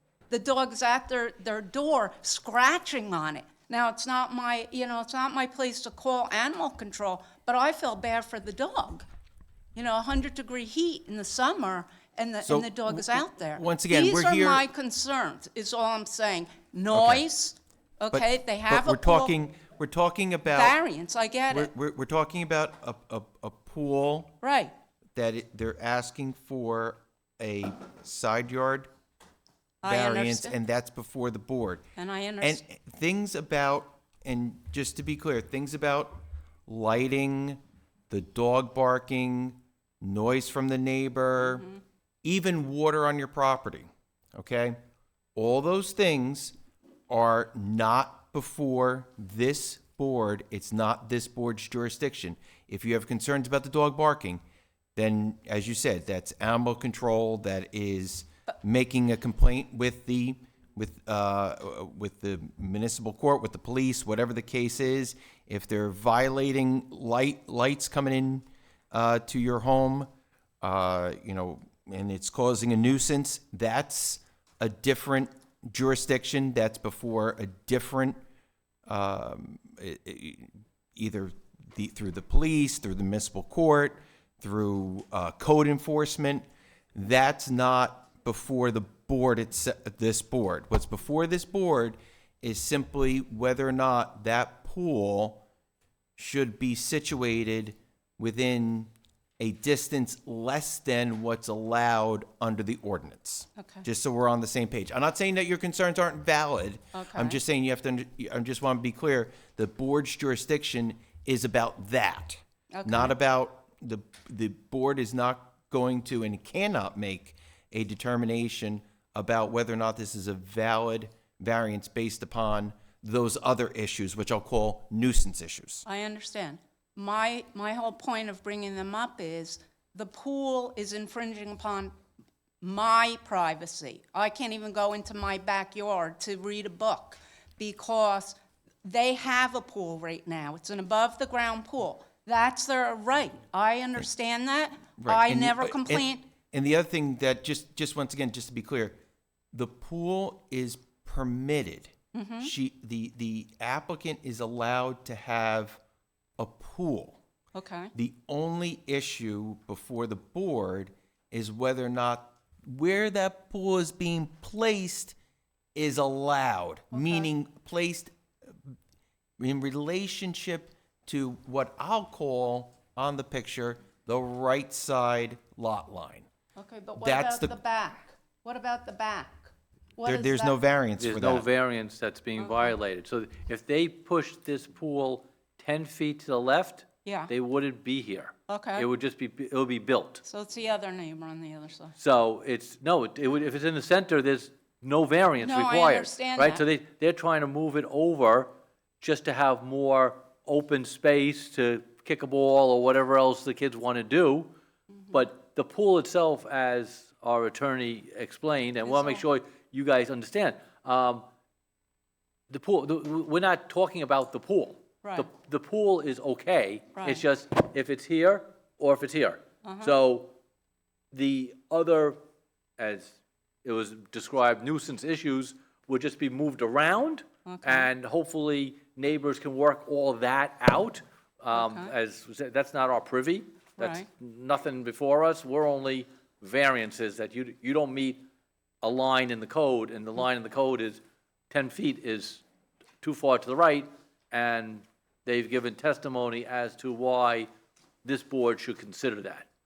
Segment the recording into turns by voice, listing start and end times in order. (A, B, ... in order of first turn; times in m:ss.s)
0:00.3-0:09.0 A
0:09.8-0:19.3 A
0:12.5-0:14.6 B
0:16.9-0:17.2 B
0:18.1-0:20.8 B
0:20.5-0:21.7 A
0:21.5-0:24.4 B
0:24.4-0:24.7 A
0:25.1-0:28.9 B
0:29.8-0:30.6 A
0:29.8-0:31.8 B
0:32.0-0:32.6 A
0:32.4-0:37.6 B
0:38.1-0:41.7 B
0:41.4-0:41.8 A
0:42.2-0:44.8 B
0:45.4-0:46.6 B
0:47.1-0:54.4 B
0:55.0-1:10.1 B
1:10.6-1:18.2 B
1:18.9-1:35.4 B
1:36.2-2:05.9 B
1:43.6-1:43.8 A
1:46.9-1:47.4 A
1:52.7-1:53.1 A
2:05.9-2:11.9 A
2:12.6-2:26.2 A
2:25.0-2:29.0 B
2:29.5-2:35.8 B
2:32.1-2:32.5 A
2:36.4-2:37.2 B
2:37.5-2:37.9 A
2:37.9-2:45.2 B
2:45.7-2:48.1 B
2:46.9-2:47.3 A
2:49.4-2:56.3 B
2:56.6-3:00.5 A
2:57.0-2:57.6 B
3:00.0-3:01.5 B
3:01.0-3:10.2 C
3:02.4-3:02.7 A
3:07.0-3:07.3 A
3:08.5-3:08.8 A
3:10.2-3:11.9 A
3:12.0-3:24.5 C
3:15.4-3:16.6 A
3:25.1-3:31.2 C
3:28.8-3:29.2 A
3:32.5-3:40.3 C
3:35.0-3:35.3 A
3:37.0-3:37.2 A
3:39.6-3:39.9 A
3:41.1-3:42.2 C
3:42.8-3:58.2 C
3:47.4-3:47.9 A
3:51.5-3:51.9 A
3:53.8-3:54.1 A
3:58.8-4:02.4 C
4:03.0-4:07.5 C
4:08.0-4:09.5 C